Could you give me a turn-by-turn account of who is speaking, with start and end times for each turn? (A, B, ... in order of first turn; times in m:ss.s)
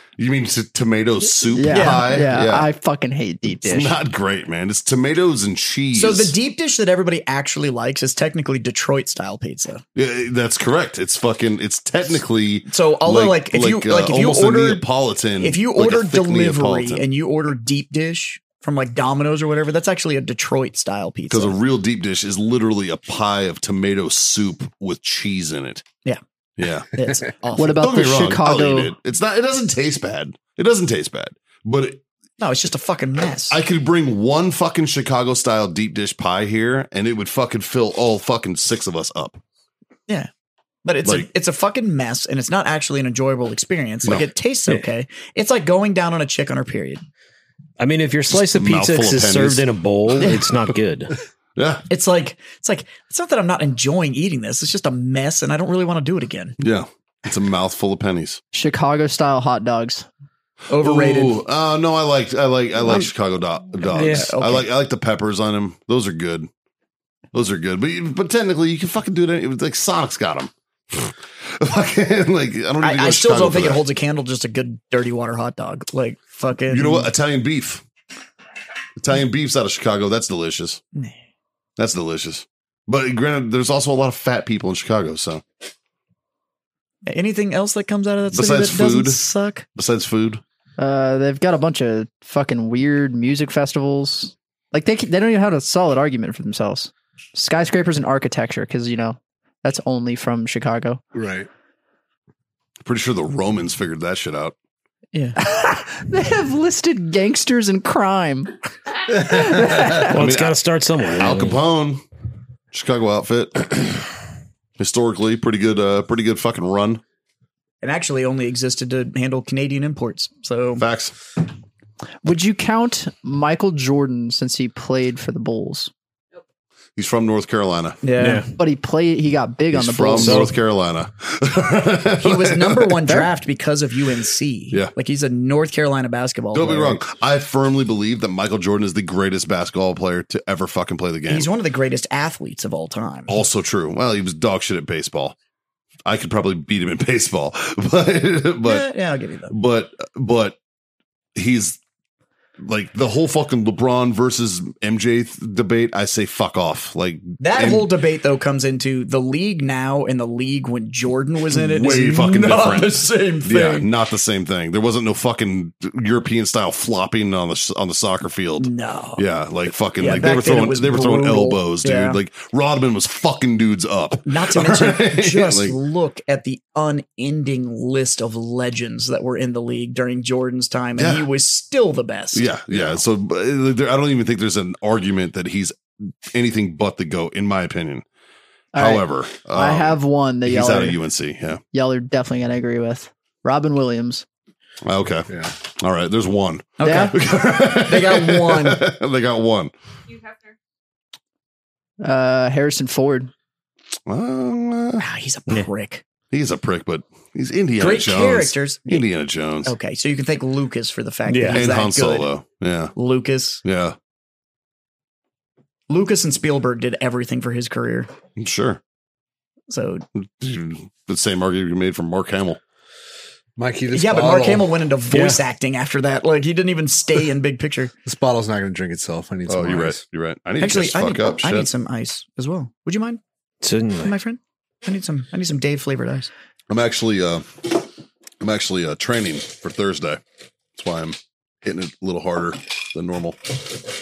0:00.2-0:02.7 A
0:01.5-0:04.0 B
0:01.7-0:02.2 C
0:03.6-0:06.4 A
0:05.9-0:09.8 C
0:10.0-0:17.0 A
0:12.7-0:14.8 C
0:15.4-0:21.6 C
0:21.3-0:25.8 A
0:26.6-0:26.9 A
0:26.9-0:27.8 C
0:27.6-0:28.9 B
0:27.7-0:32.0 A
0:32.4-0:33.6 C
0:33.5-0:39.4 A
0:40.8-0:47.0 C
0:44.0-0:44.3 A
0:47.8-0:51.2 D
0:48.3-0:49.7 A
0:51.6-0:51.9 A
0:51.9-0:56.6 C
0:56.6-0:58.4 A
0:58.5-1:00.1 B
1:00.7-1:01.4 C
1:00.8-1:06.5 A
1:03.9-1:04.7 C
1:04.0-1:04.3 D
1:07.3-1:13.8 A
1:12.8-1:17.1 C
1:16.7-1:17.8 A
1:19.0-1:20.8 A
1:21.8-1:25.4 A
1:27.1-1:29.7 C
1:28.3-1:29.2 A
1:29.8-1:30.4 A
1:30.8-1:41.0 B
1:41.1-1:41.5 E
1:42.8-1:44.6 A
1:45.4-1:48.5 B
1:49.1-1:50.1 B
1:50.0-1:51.6 D
1:50.0-1:52.0 A
1:52.7-1:54.0 A
1:54.8-1:57.0 A
1:57.8-2:00.8 C
2:00.8-2:01.1 A
2:02.2-2:05.9 B
2:07.0-2:08.0 A
2:08.0-2:08.5 C
2:08.2-2:08.5 D
2:08.6-2:10.5 B
2:09.7-2:13.0 A
2:10.2-2:10.5 D
2:12.2-2:17.0 C
2:16.5-2:21.5 A
2:21.3-2:23.4 C
2:23.3-2:25.4 A
2:26.0-2:28.9 A
2:28.6-2:29.6 C
2:29.5-2:30.6 A
2:31.4-2:31.8 A
2:32.6-2:37.9 A
2:37.4-2:43.9 C
2:41.5-2:55.8 A
2:48.6-2:49.2 C
2:50.0-2:52.2 C
2:54.3-3:03.0 C
3:01.0-3:01.3 A
3:02.3-3:08.0 A
3:08.7-3:11.0 B
3:08.8-3:11.6 A
3:11.7-3:14.2 B
3:14.8-3:19.7 A
3:15.3-3:15.5 E
3:16.8-3:18.8 C
3:16.8-3:17.2 B
3:22.0-3:23.3 B
3:24.1-3:25.0 A
3:25.0-3:26.0 C
3:26.3-3:29.7 A
3:27.8-3:29.1 C
3:29.6-3:32.3 C
3:31.3-3:31.6 D
3:31.4-3:32.9 A
3:33.0-3:33.6 C
3:33.6-3:34.0 A
3:35.9-3:38.1 C
3:38.4-3:38.8 A
3:39.7-3:40.0 C
3:40.2-3:42.6 A
3:43.6-3:44.8 E
3:43.9-3:47.9 C
3:45.1-3:45.4 D
3:48.0-3:50.0 E
3:49.5-3:51.7 A
3:50.6-3:53.2 C
3:53.6-3:54.2 D
3:54.0-3:56.3 C
3:56.7-3:57.8 A
3:58.4-4:00.2 A
4:00.8-4:03.5 A